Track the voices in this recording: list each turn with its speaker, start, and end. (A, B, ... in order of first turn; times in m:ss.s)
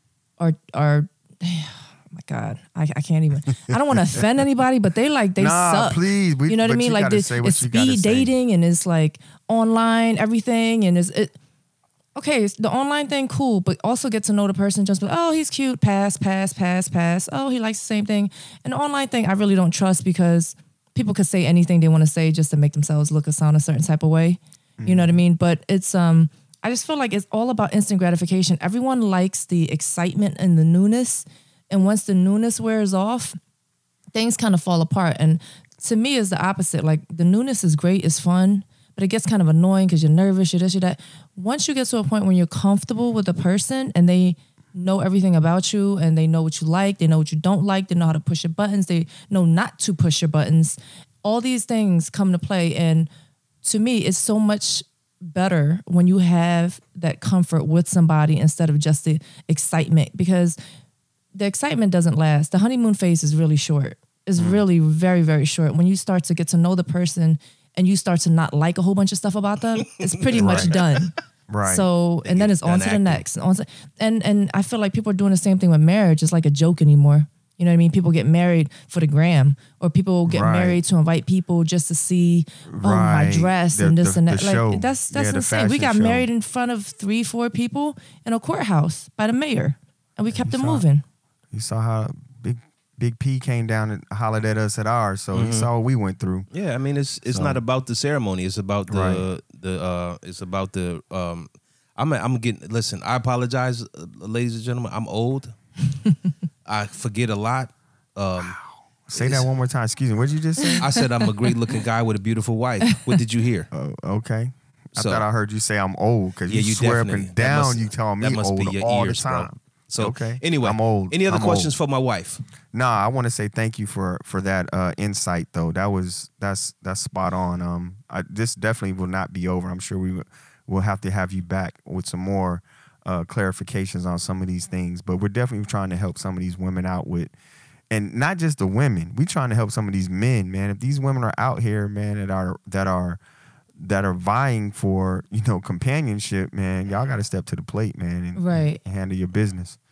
0:00.4-0:11.4 A
0:04.0-0:04.2 B
0:05.4-0:08.3 B
0:12.2-0:33.4 A
0:24.8-0:25.2 B
0:34.1-0:53.1 A
0:53.6-1:00.6 A
1:01.3-1:11.1 A
1:04.4-1:04.6 B
1:10.2-1:10.8 C
1:10.4-1:10.8 B
1:11.5-1:11.8 B
1:11.7-1:31.0 A
1:12.2-1:13.2 C
1:20.3-1:20.8 B
1:22.7-1:26.3 B
1:30.4-1:30.8 B
1:31.5-1:36.5 B
1:35.3-1:35.7 C
1:36.5-1:45.6 C
1:37.3-1:37.6 B
1:38.9-1:39.3 B
1:46.6-1:48.6 C
1:48.4-1:50.9 B
1:49.2-1:49.5 C
1:50.8-1:53.7 C
1:53.7-2:01.8 B
1:55.0-1:55.2 C
1:56.5-2:02.4 C
2:02.7-2:17.3 B
2:17.9-2:23.2 B
2:23.8-2:29.8 B
2:28.4-2:28.8 A